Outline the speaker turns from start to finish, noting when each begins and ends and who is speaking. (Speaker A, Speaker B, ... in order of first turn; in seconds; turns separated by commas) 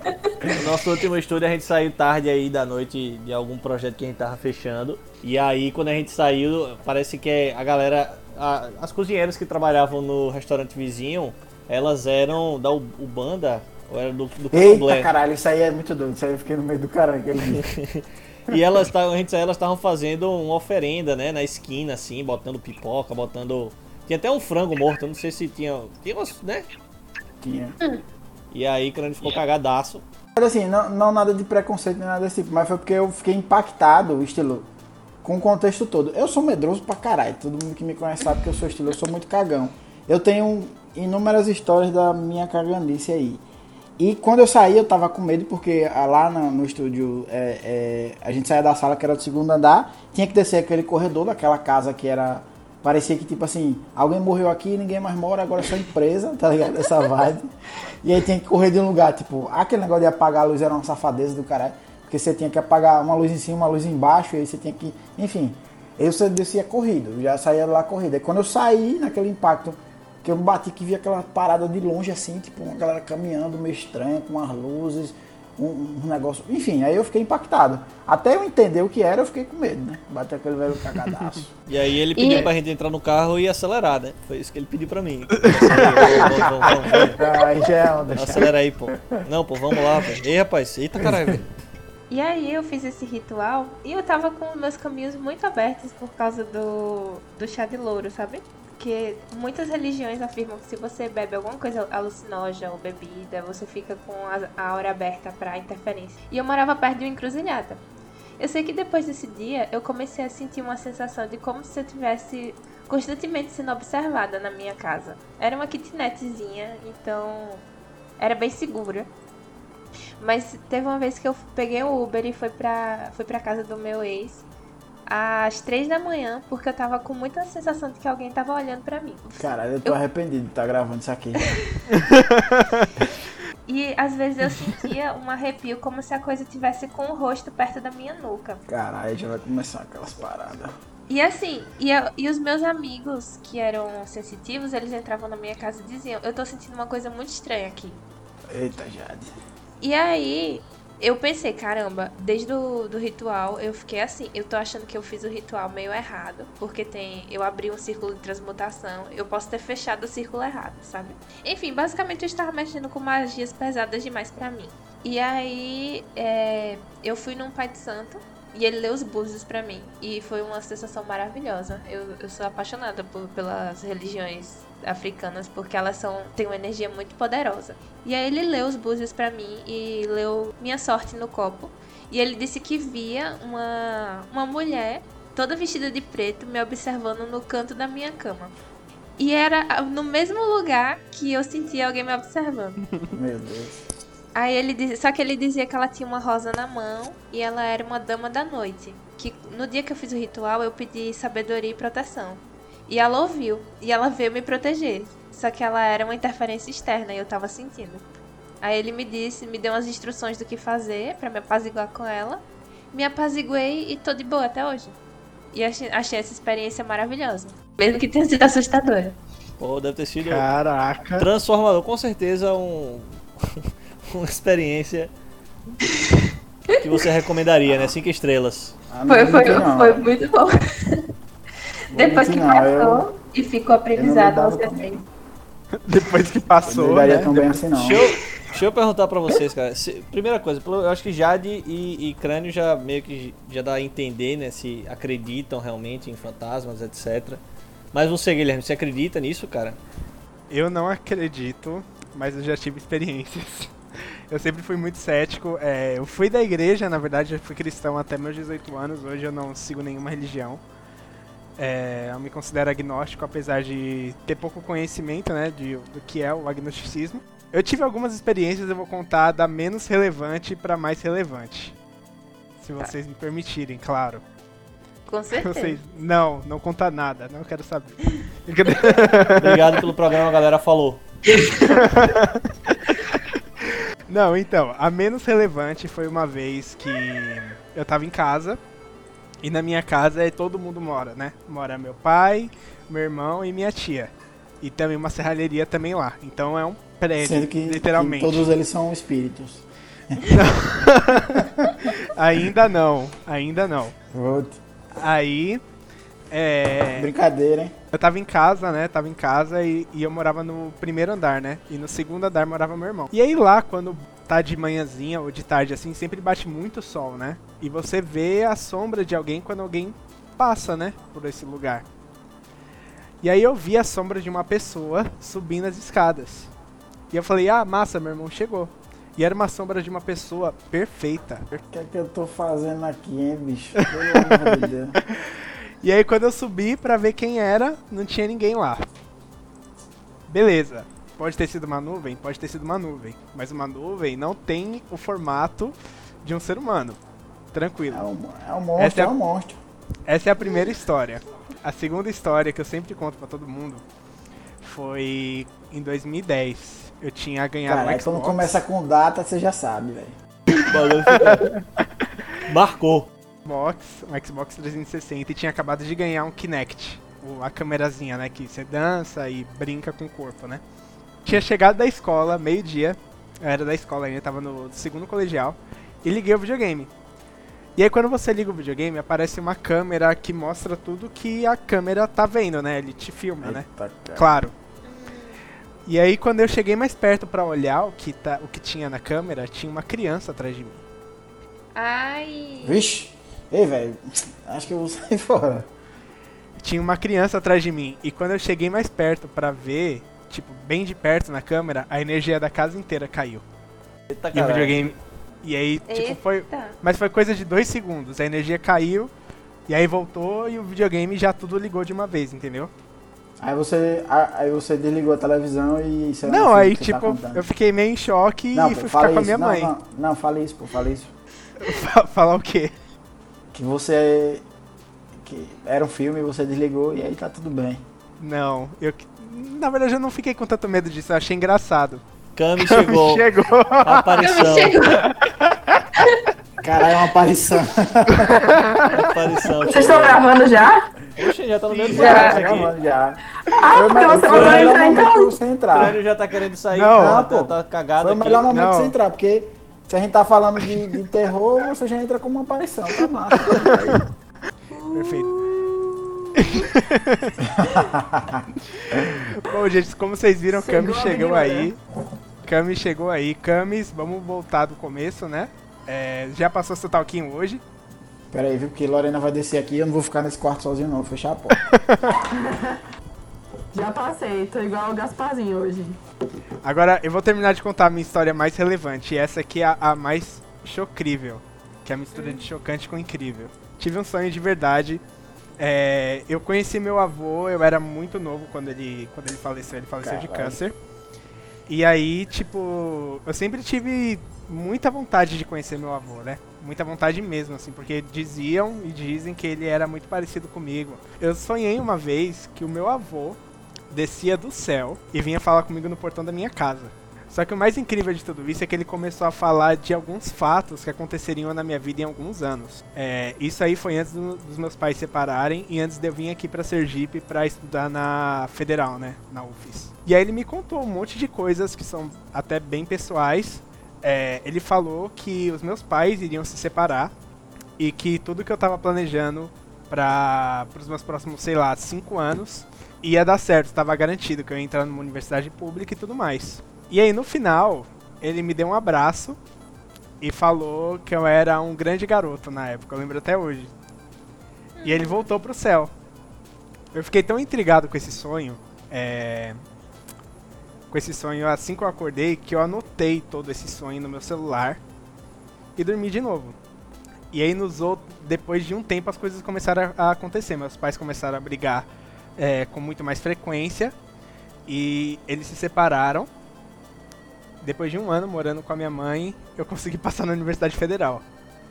Speaker A: 0.5-15.1, Speaker B: 14.5-17.6, Speaker A: 17.4-26.7, Speaker B: 27.4-27.8, Speaker A: 28.5-30.0, Speaker B: 30.4-34.7, Speaker B: 35.2-43.4, Speaker B: 44.0-81.5, Speaker A: 81.7-87.2, Speaker C: 82.2-82.5, Speaker D: 85.5-85.8, Speaker B: 86.0-89.2, Speaker A: 88.1-91.5, Speaker C: 92.1-107.8, Speaker C: 108.4-117.6, Speaker C: 118.2-119.1, Speaker C: 120.2-124.4, Speaker C: 125.1-130.0, Speaker B: 129.4-131.6, Speaker D: 131.9-132.9, Speaker C: 133.7-138.6, Speaker B: 138.7-140.7, Speaker C: 141.1-148.0, Speaker B: 148.5-149.3, Speaker C: 149.8-188.5, Speaker C: 189.2-192.8, Speaker B: 193.1-193.8, Speaker C: 194.3-208.0, Speaker C: 208.6-215.0, Speaker C: 215.5-219.2, Speaker A: 219.6-220.4, Speaker D: 220.2-221.3, Speaker A: 221.2-225.1, Speaker A: 226.8-228.7, Speaker B: 228.9-230.1, Speaker C: 229.1-231.0, Speaker C: 231.9-235.0, Speaker B: 231.9-233.1, Speaker B: 233.9-235.0, Speaker D: 235.8-237.6, Speaker B: 236.6-238.0, Speaker A: 237.8-247.4, Speaker A: 247.9-249.8, Speaker D: 250.5-260.6, Speaker D: 261.6-271.8, Speaker D: 272.6-274.2, Speaker C: 275.1-275.8, Speaker D: 275.4-279.9, Speaker A: 279.4-281.3, Speaker D: 281.6-288.6, Speaker D: 289.4-298.5, Speaker B: 297.2-300.4, Speaker D: 300.2-303.9, Speaker B: 301.3-301.7, Speaker B: 304.1-304.6, Speaker D: 305.0-305.6, Speaker D: 306.3-307.1, Speaker B: 306.9-307.7, Speaker D: 307.9-321.8, Speaker D: 323.2-326.5, Speaker D: 327.1-331.6, Speaker B: 331.7-335.0, Speaker D: 333.8-338.8, Speaker D: 340.3-347.0, Speaker D: 347.5-348.0, Speaker B: 347.9-349.6, Speaker D: 348.8-349.1, Speaker D: 350.1-353.8, Speaker D: 354.6-358.6, Speaker B: 357.7-360.2, Speaker A: 360.6-361.6, Speaker D: 361.1-361.5, Speaker A: 362.4-363.1, Speaker D: 363.4-370.6, Speaker D: 371.2-376.9, Speaker D: 377.8-384.5, Speaker B: 383.4-384.4, Speaker C: 384.9-385.4, Speaker D: 385.9-390.8, Speaker C: 391.7-392.8, Speaker B: 392.6-395.7, Speaker D: 396.6-403.4, Speaker A: 404.1-404.9, Speaker D: 404.3-409.1, Speaker C: 405.9-406.8, Speaker D: 409.7-412.7, Speaker B: 413.4-417.4, Speaker D: 416.3-419.7, Speaker B: 418.5-421.1, Speaker D: 421.6-422.7, Speaker B: 423.5-424.4, Speaker B: 425.1-427.8, Speaker D: 428.2-432.0, Speaker A: 432.4-433.3, Speaker D: 432.6-434.4, Speaker A: 433.8-434.8, Speaker C: 434.2-435.1, Speaker D: 435.0-435.8, Speaker C: 435.9-436.2, Speaker B: 436.6-438.4, Speaker D: 438.3-439.1, Speaker A: 438.9-440.2, Speaker E: 439.6-440.9, Speaker A: 441.1-442.7, Speaker D: 441.7-442.6, Speaker B: 441.9-446.0, Speaker C: 441.9-442.4, Speaker E: 443.5-445.3, Speaker A: 444.1-445.0, Speaker A: 445.7-448.5, Speaker D: 446.7-447.2, Speaker B: 446.9-454.0, Speaker D: 448.5-448.9, Speaker D: 453.5-453.9, Speaker E: 454.7-456.7, Speaker D: 454.9-455.3, Speaker D: 456.4-457.3, Speaker B: 457.5-459.2, Speaker E: 457.6-457.9, Speaker D: 458.7-461.8, Speaker E: 460.5-461.7, Speaker D: 462.4-467.6, Speaker B: 468.3-471.6, Speaker D: 471.6-472.1, Speaker E: 472.1-472.8, Speaker E: 473.7-476.0, Speaker D: 476.6-485.0, Speaker C: 482.1-482.5, Speaker D: 485.6-490.7, Speaker B: 490.0-490.6, Speaker D: 491.7-503.4, Speaker D: 503.9-527.1, Speaker D: 527.8-539.4, Speaker D: 540.2-543.7, Speaker C: 544.8-545.3, Speaker D: 544.8-545.9, Speaker D: 546.9-549.6, Speaker D: 550.9-554.8, Speaker D: 555.8-556.5, Speaker D: 557.3-563.9, Speaker D: 564.7-566.3, Speaker D: 567.6-571.2